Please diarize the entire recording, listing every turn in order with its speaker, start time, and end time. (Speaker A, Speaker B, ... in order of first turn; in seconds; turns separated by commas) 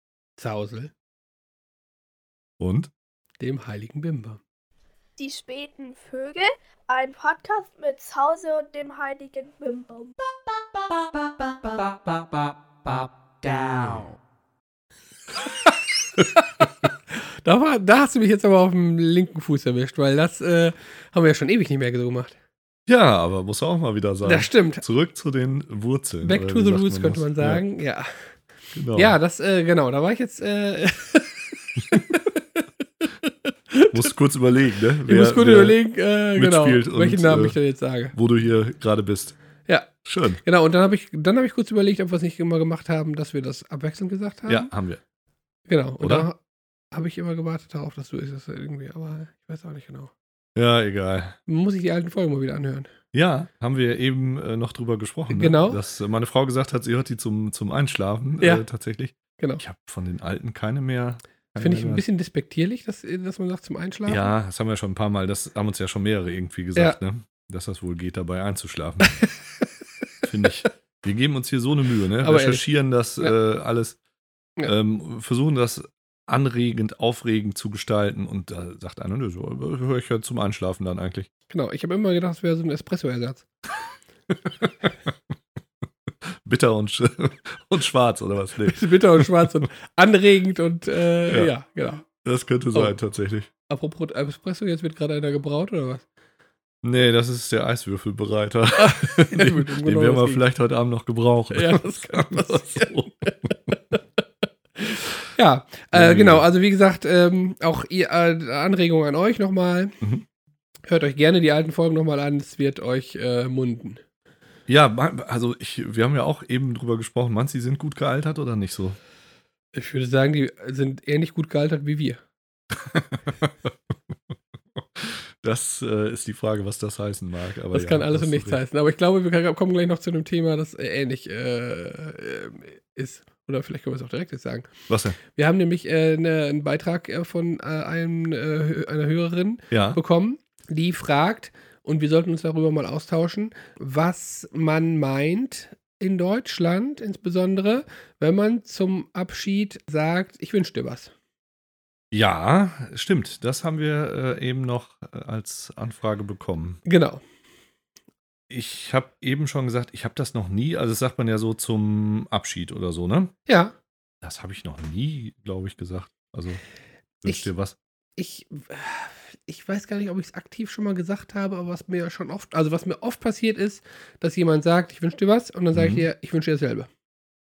Speaker A: 0.4-0.9, Speaker B: 2.6-2.9, Speaker A: 3.4-4.4, Speaker C: 5.2-10.1, Speaker A: 11.0-14.2, Speaker A: 15.4-22.4, Speaker B: 22.9-27.6, Speaker A: 24.2-24.8, Speaker A: 26.2-28.4, Speaker B: 28.7-29.2, Speaker A: 28.9-32.7, Speaker A: 33.2-34.1, Speaker B: 33.9-35.8, Speaker A: 35.1-38.1, Speaker B: 36.4-37.6, Speaker B: 38.1-39.4, Speaker A: 39.7-44.7, Speaker B: 40.0-40.4, Speaker B: 44.5-45.0, Speaker A: 45.7-46.4, Speaker B: 46.0-46.3, Speaker A: 46.9-50.1, Speaker B: 50.6-51.4, Speaker A: 51.5-52.9, Speaker B: 53.1-62.0, Speaker A: 55.3-55.8, Speaker A: 61.6-64.3, Speaker B: 64.1-69.2, Speaker B: 70.2-74.0, Speaker A: 72.2-72.7, Speaker B: 74.6-81.3, Speaker A: 81.5-83.5, Speaker B: 84.5-84.9, Speaker B: 86.4-89.3, Speaker A: 88.6-92.1, Speaker B: 92.1-93.5, Speaker A: 93.7-96.0, Speaker B: 96.8-103.8, Speaker A: 98.8-100.4, Speaker A: 101.5-104.0, Speaker A: 104.8-110.0, Speaker B: 105.9-106.5, Speaker A: 110.8-114.0, Speaker B: 114.7-119.0, Speaker A: 119.7-122.2, Speaker B: 122.8-123.7, Speaker B: 124.8-128.6, Speaker A: 127.7-151.1, Speaker B: 134.9-135.2, Speaker B: 139.7-140.0, Speaker B: 152.1-156.8, Speaker A: 156.8-157.2, Speaker B: 158.5-163.3, Speaker A: 163.5-163.8, Speaker B: 164.2-166.6, Speaker B: 167.2-167.8, Speaker A: 168.2-176.9, Speaker B: 175.7-176.1